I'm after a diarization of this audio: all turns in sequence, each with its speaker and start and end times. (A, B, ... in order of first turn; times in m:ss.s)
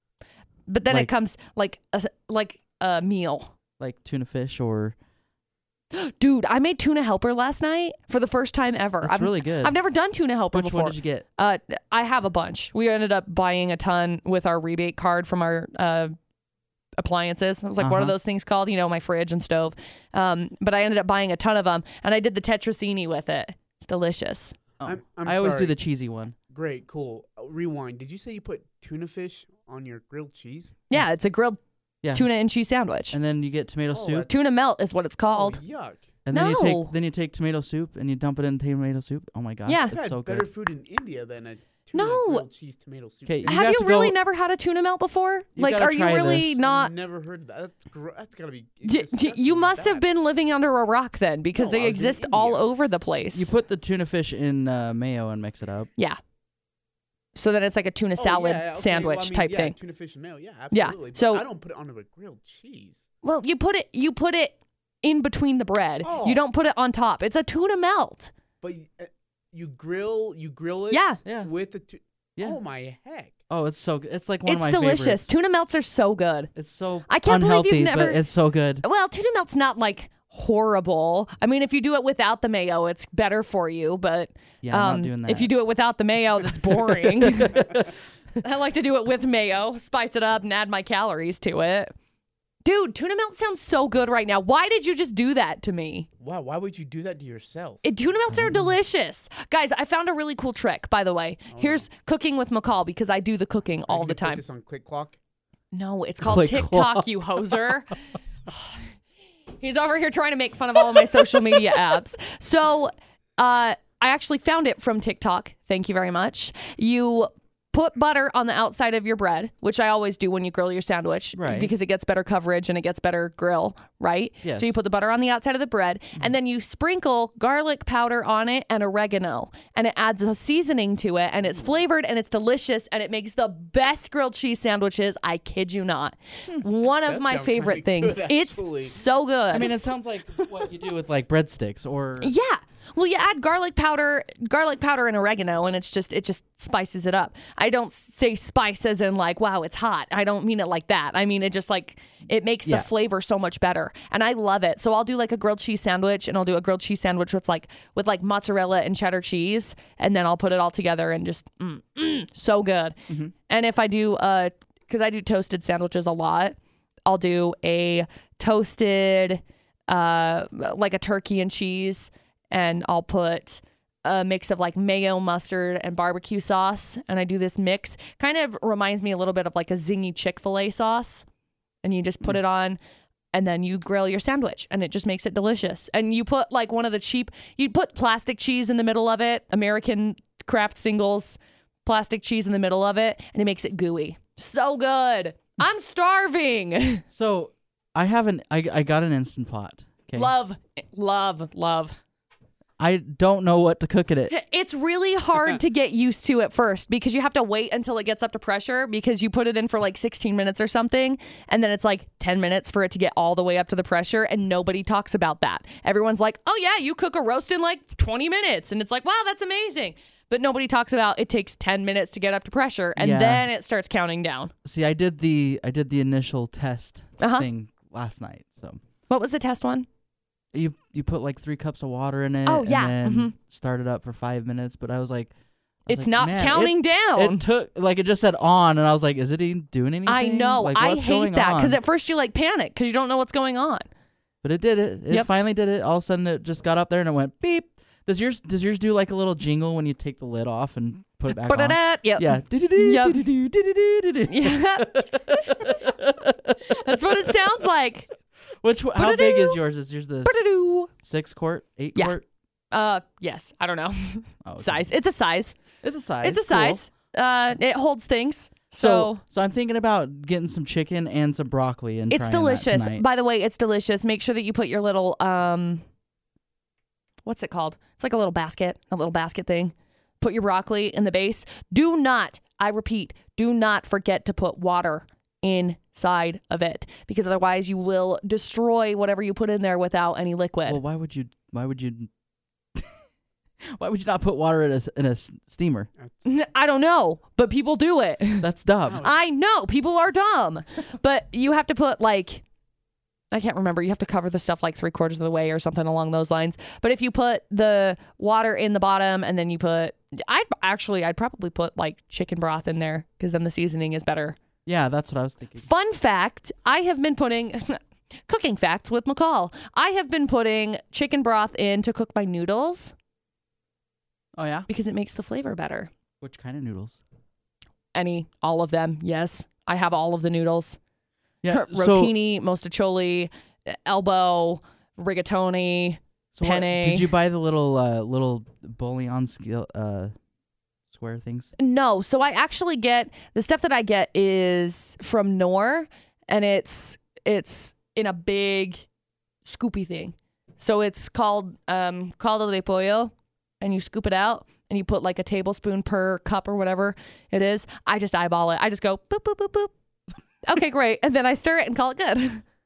0:00.7-0:03.5 A
0:03.8-0:05.0 B
0:05.9-0:16.1 A
0:09.0-0:09.8 B
0:10.5-0:11.2 B
0:17.0-0:24.6 A
0:17.8-0:18.1 B
0:24.8-0:26.3 B
0:24.8-0:25.8 C
0:26.5-0:30.8 C
0:30.9-0:31.6 A
0:32.0-0:32.3 B
0:32.1-0:33.2 A
0:33.1-0:34.3 B
0:33.9-0:34.3 C
0:34.2-0:35.6 A
0:35.3-0:36.1 C
0:36.2-0:40.5 B
0:36.3-0:36.9 A
0:39.6-0:40.0 A
0:39.9-0:43.6 C
0:41.9-0:42.4 A
0:43.2-0:44.2 B
0:43.5-0:46.9 A
0:45.6-0:46.6 B
0:46.4-0:50.0 C
0:48.8-0:53.5 A
0:51.5-0:52.7 C
0:53.3-0:55.9 B
0:57.3-0:59.8 A
0:58.2-1:03.0 C
1:00.7-1:01.4 A
1:03.2-1:08.3 A
1:06.0-1:06.4 C
1:08.6-1:13.3 C
1:10.9-1:11.2 A
1:13.5-1:15.3 B
1:14.4-1:16.5 A
1:16.5-1:18.8 B
1:17.1-1:18.2 A
1:18.8-1:27.7 A
1:24.6-1:25.5 B
1:26.5-1:27.9 B
1:28.4-1:31.9 A
1:32.6-1:36.1 A
1:36.2-1:37.8 C
1:37.8-1:44.4 A
1:41.5-1:41.8 C
1:43.9-1:45.2 C
1:45.7-1:47.9 A
1:46.2-1:47.1 B
1:48.5-1:48.8 A
1:49.6-2:19.7 A
1:51.2-1:51.8 B
2:01.4-2:01.7 B
2:04.4-2:04.8 B
2:17.0-2:19.0 C
2:19.5-2:22.3 B
2:22.2-3:01.2 A
3:01.8-3:02.8 A
3:03.3-3:17.0 A
3:17.1-3:20.3 B
3:20.1-3:22.0 A
3:22.8-3:24.3 B
3:24.3-3:44.5 A
3:43.0-3:43.5 B
3:44.6-3:48.8 B
3:47.2-3:47.5 A
3:49.1-3:49.8 A
3:50.5-3:55.3 B
3:52.4-3:53.3 A
3:55.8-4:01.8 B
3:55.9-3:57.4 A
4:00.0-4:03.8 A
4:04.4-4:17.4 B
4:11.3-4:13.2 A
4:14.3-4:15.7 A
4:16.7-4:18.1 A
4:18.6-4:22.2 B
4:18.9-4:19.6 A
4:20.2-4:20.9 A
4:22.7-4:25.6 A
4:24.4-4:24.9 B
4:25.8-4:26.8 B
4:26.2-4:29.2 A
4:28.8-4:33.0 B
4:32.1-4:35.8 A
4:37.2-4:50.8 A
4:50.6-4:52.1 B
4:53.8-4:55.9 B
4:56.0-4:56.3 C
4:56.2-4:58.5 A
4:58.4-4:59.0 B
4:58.8-4:59.1 C
4:59.0-5:02.4 A
5:03.3-5:14.4 A
5:14.6-5:15.7 B
5:15.6-5:22.9 A
5:24.4-5:24.7 B
5:24.7-5:25.9 A
5:26.2-5:27.0 B
5:27.9-5:30.8 A
5:31.4-5:32.1 B
5:31.5-5:37.1 A
5:36.3-5:40.1 B
5:40.9-5:41.5 B
5:41.6-5:48.8 A
5:49.4-5:59.7 A
6:00.4-6:02.4 A